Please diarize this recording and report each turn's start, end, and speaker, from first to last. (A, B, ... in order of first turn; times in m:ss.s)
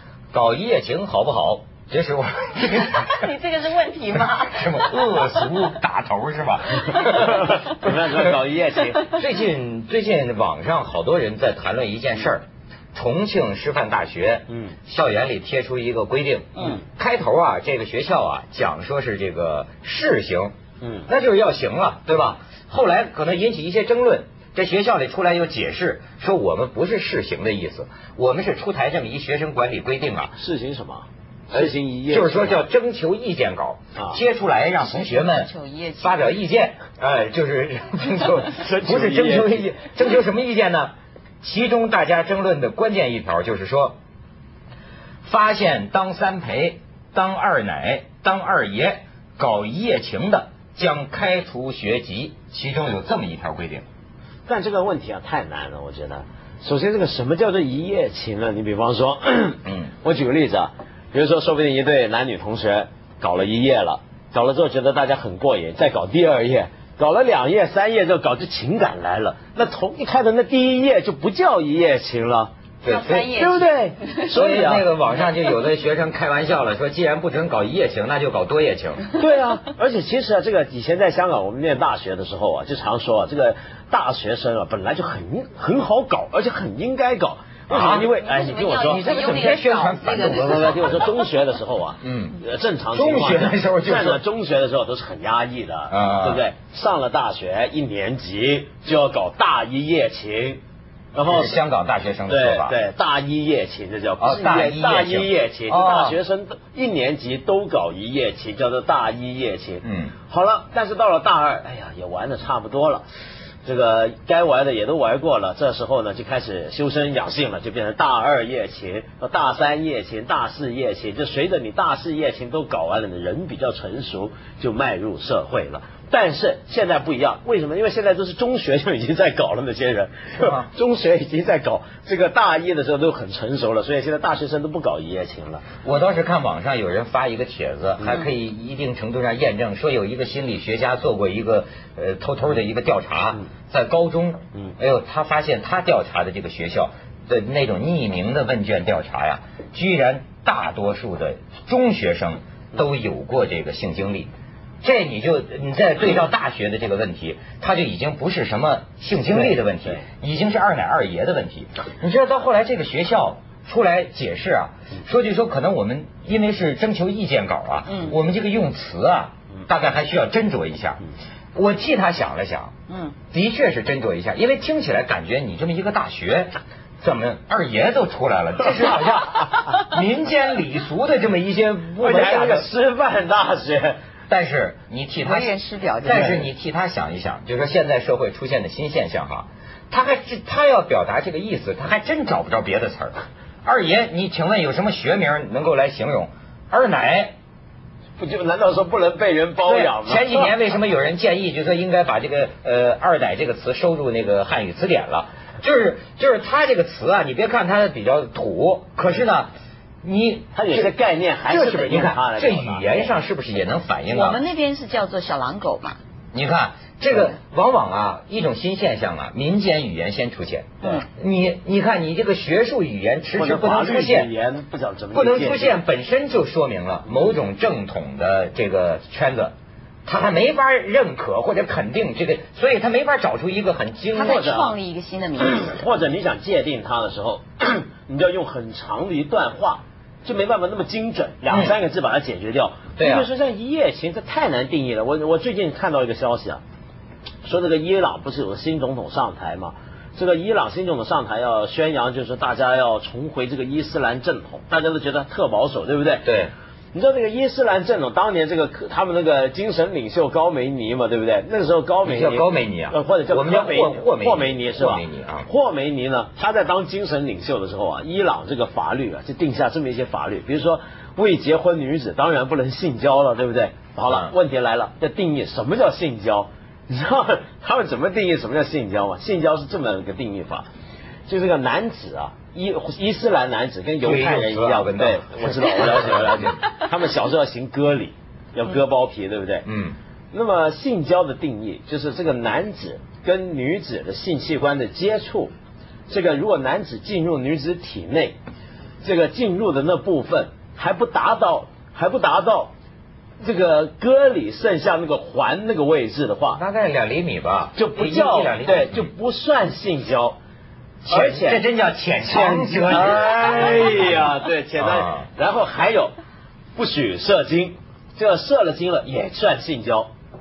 0:00.3-0:03.2 A
0:02.8-0:05.3 B
0:04.2-0:07.9 A
0:07.2-0:09.1 C
0:09.1-0:20.5 A
0:14.5-0:14.7 C
0:20.8-0:21.1 C
0:21.1-0:30.3 A
0:30.4-0:32.6 C
0:31.5-0:35.5 A
0:34.8-0:36.4 B
0:36.0-0:44.0 A
0:38.5-0:39.7 C
0:45.2-0:53.8 A
0:54.5-1:12.5 C
0:59.6-0:59.9 A
1:12.8-1:13.3 A
1:12.8-1:14.3 B
1:13.3-1:14.9 C
1:14.3-1:19.0 A
1:19.1-1:29.0 C
1:27.7-1:28.1 A
1:28.1-1:30.8 B
1:28.8-1:31.1 A
1:30.2-1:40.6 C
1:32.0-1:32.4 A
1:32.9-1:34.2 A
1:35.9-1:36.4 A
1:41.1-1:41.6 C
1:41.2-1:42.8 A
1:42.3-1:53.0 C
1:44.2-1:46.2 A
1:49.8-1:50.1 A
1:53.6-2:15.6 C
2:10.4-2:10.7 A
2:15.8-2:34.3 A
2:34.8-2:51.0 A
2:39.3-2:40.0 C
2:47.8-2:48.1 B
2:51.5-2:52.7 A
2:52.9-2:53.2 B
2:53.3-3:02.7 A
3:02.0-3:04.0 C
3:04.3-3:05.5 A
3:05.2-3:06.5 B
3:06.0-3:17.3 A
3:18.2-3:20.5 C
3:19.6-3:29.5 A
3:30.0-3:30.9 A
3:30.5-3:33.1 C
3:31.5-3:34.4 A
3:34.1-3:36.0 B
3:36.3-3:44.3 A
3:43.3-3:45.8 C
3:45.1-3:49.5 A
3:47.1-3:47.3 C
3:50.0-3:54.4 A
3:54.1-3:55.9 B
3:54.2-3:54.7 C
3:55.4-4:06.6 C
4:01.5-4:01.7 A
4:03.0-4:03.3 A
4:07.4-4:16.3 C
4:16.2-4:16.5 A
4:16.9-4:40.6 C
4:22.0-4:25.5 A
4:41.3-4:49.6 C
4:44.0-4:46.6 A
4:49.6-4:50.0 A
4:50.3-4:55.5 C
4:56.1-4:58.4 C
4:59.0-5:02.7 C
5:03.4-5:06.6 C
5:06.5-5:09.1 A
5:07.8-5:10.4 C
5:11.0-5:11.6 C
5:11.1-5:14.1 A
5:12.2-5:16.1 C
5:14.8-5:15.2 A
5:16.8-5:20.1 C